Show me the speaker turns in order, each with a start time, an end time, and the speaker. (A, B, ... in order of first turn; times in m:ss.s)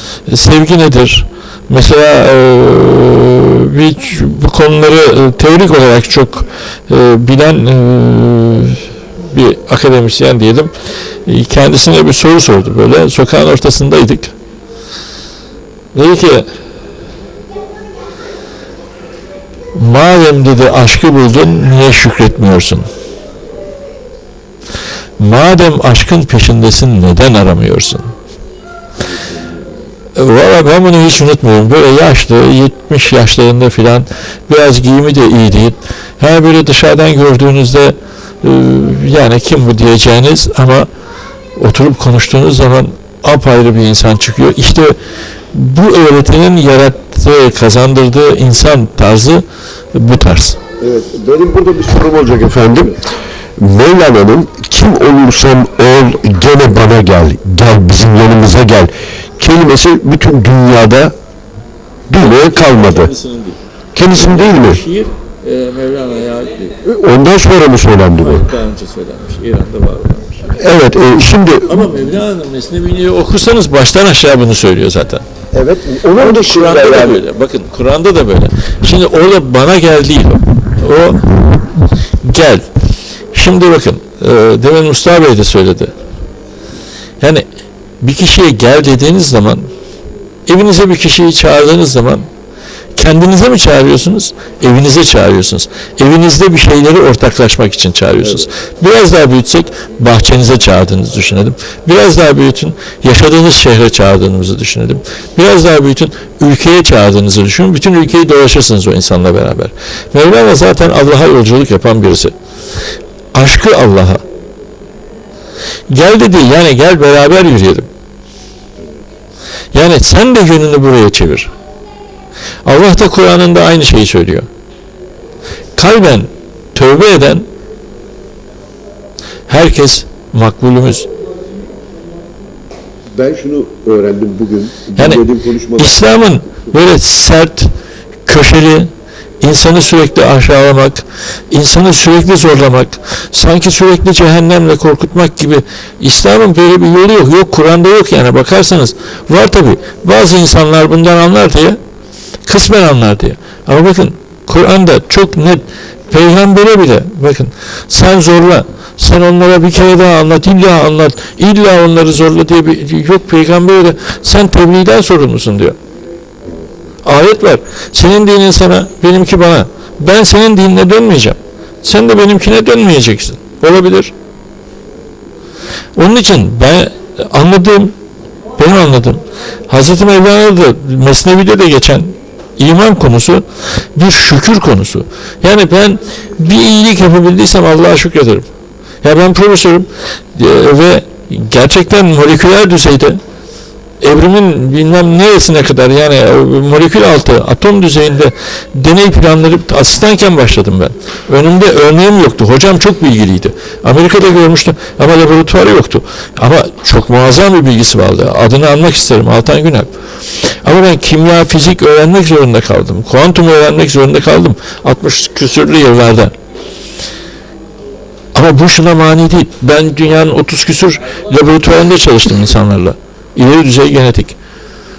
0:00.3-0:10.7 A
0:11.2-0:14.3 A
0:15.9-0:16.5 A
0:19.7-0:22.8 A
0:25.2-0:28.1 A
0:29.0-0:29.6 B
0:30.1-0:40.9 A
0:41.6-0:45.0 A
0:45.5-0:50.6 A
0:50.8-0:53.0 B
0:53.6-1:01.1 B
1:02.1-1:03.1 B
1:02.1-1:03.6 A
1:03.9-1:04.8 B
1:04.1-1:06.8 A
1:06.8-1:08.4 B
1:08.1-1:11.0 A
1:10.7-1:11.8 B
1:11.6-1:15.2 A
1:15.5-1:17.2 B
1:16.1-1:21.7 A
1:22.2-1:22.6 A
1:23.3-1:25.9 A
1:27.2-1:27.4 A
1:28.0-1:29.7 A
1:30.5-1:32.2 A
1:33.0-1:52.3 A
1:53.3-1:54.2 A
1:55.9-1:57.9 A
1:59.7-2:01.5 A
2:02.6-2:04.5 A
2:05.8-2:07.5 A
2:09.5-2:11.1 A
2:13.2-2:16.0 B
2:15.0-2:15.2 A
2:15.8-2:17.7 A
2:18.2-2:18.9 A
2:19.4-2:31.8 A
2:32.4-2:45.8 A
2:47.0-2:54.1 A
2:55.9-2:57.9 A
2:58.6-3:08.5 A
3:09.0-3:13.2 A
3:14.0-3:29.9 A
3:30.4-3:36.3 A
3:38.3-3:44.4 A